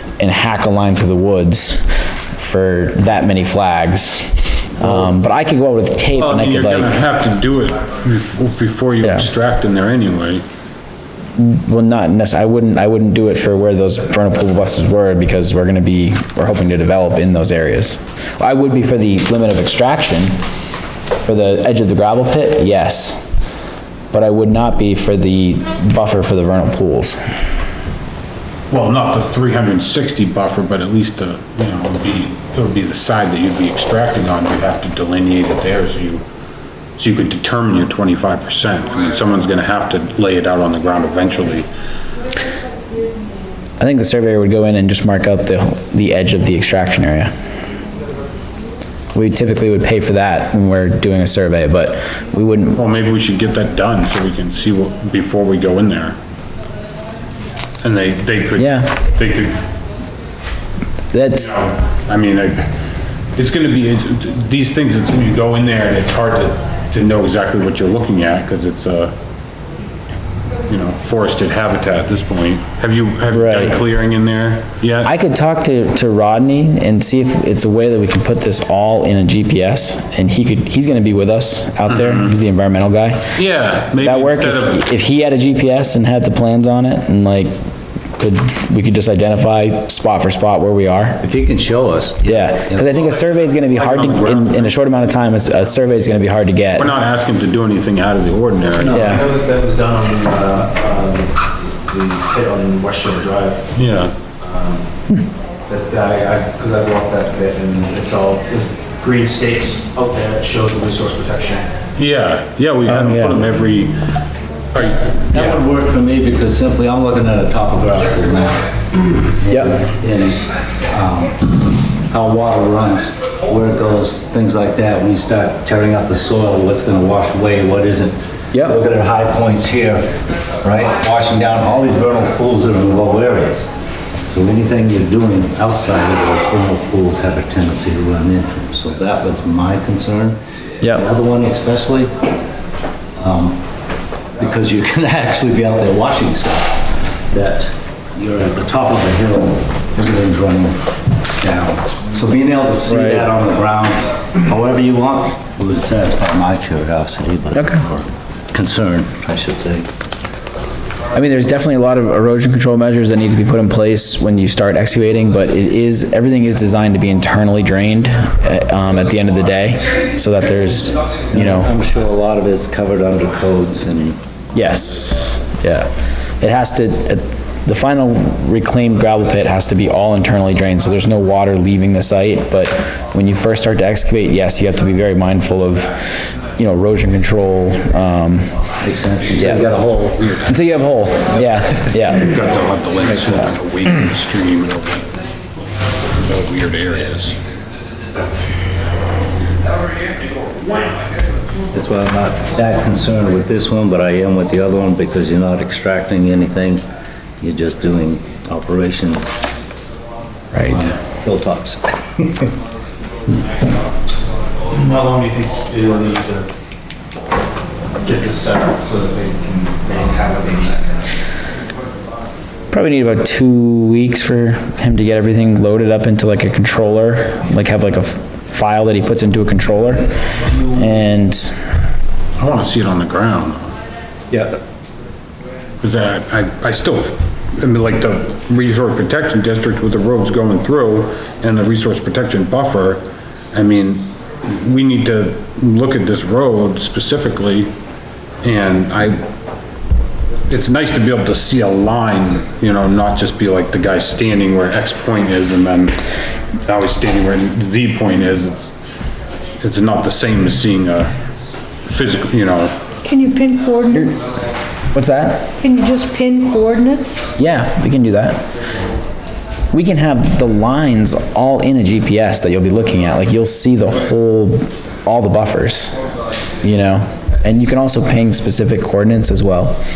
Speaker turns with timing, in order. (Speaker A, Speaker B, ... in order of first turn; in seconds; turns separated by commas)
Speaker A: 0.2-7.0, Speaker B: 6.1-10.4, Speaker A: 11.4-20.4, Speaker A: 21.2-23.2, Speaker A: 24.1-27.2, Speaker B: 28.7-36.2, Speaker B: 37.0-41.7, Speaker A: 43.8-47.3, Speaker A: 49.1-52.8, Speaker B: 52.7-56.2, Speaker B: 57.8-59.6, Speaker A: 58.6-58.9, Speaker A: 61.1-61.6, Speaker B: 61.3-62.6, Speaker B: 63.4-69.1, Speaker B: 70.7-75.1, Speaker A: 73.3-73.8, Speaker A: 75.0-83.2, Speaker B: 81.9-82.3, Speaker B: 83.3-84.8, Speaker A: 84.0-87.5, Speaker A: 88.2-91.2, Speaker C: 91.2-92.9, Speaker A: 92.2-96.9, Speaker B: 93.8-94.9, Speaker B: 96.8-99.2, Speaker D: 98.8-103.6, Speaker A: 98.8-99.2, Speaker B: 103.7-104.1, Speaker D: 104.4-104.8, Speaker D: 105.7-111.7, Speaker B: 112.0-114.0, Speaker A: 112.9-113.4, Speaker B: 114.7-115.6, Speaker C: 115.3-118.7, Speaker C: 119.3-130.1, Speaker A: 128.5-128.8, Speaker C: 130.6-133.7, Speaker C: 134.3-142.1, Speaker C: 143.2-143.6, Speaker C: 144.4-159.9, Speaker A: 152.9-153.3, Speaker A: 157.5-157.8, Speaker A: 161.1-171.7, Speaker C: 171.3-174.2, Speaker A: 174.5-185.9, Speaker A: 186.6-188.5, Speaker C: 188.8-190.5, Speaker A: 189.3-189.6, Speaker A: 190.4-192.3, Speaker B: 192.2-195.2, Speaker C: 193.0-193.5, Speaker B: 196.2-197.4, Speaker C: 201.7-206.8, Speaker C: 207.4-209.5, Speaker A: 210.5-210.9, Speaker C: 210.7-212.5, Speaker D: 214.7-216.5, Speaker D: 218.0-220.8, Speaker A: 222.7-230.1, Speaker D: 230.4-230.9, Speaker A: 230.7-231.6, Speaker B: 232.4-233.7, Speaker D: 234.3-234.6, Speaker B: 235.8-247.7, Speaker B: 248.4-249.2, Speaker B: 250.5-256.0, Speaker B: 256.6-258.7, Speaker B: 259.6-261.1, Speaker B: 261.8-262.8, Speaker E: 263.0-264.3, Speaker A: 263.9-264.2, Speaker A: 264.9-265.5, Speaker E: 265.6-267.2, Speaker A: 267.3-268.4, Speaker A: 269.7-276.0, Speaker A: 276.6-279.8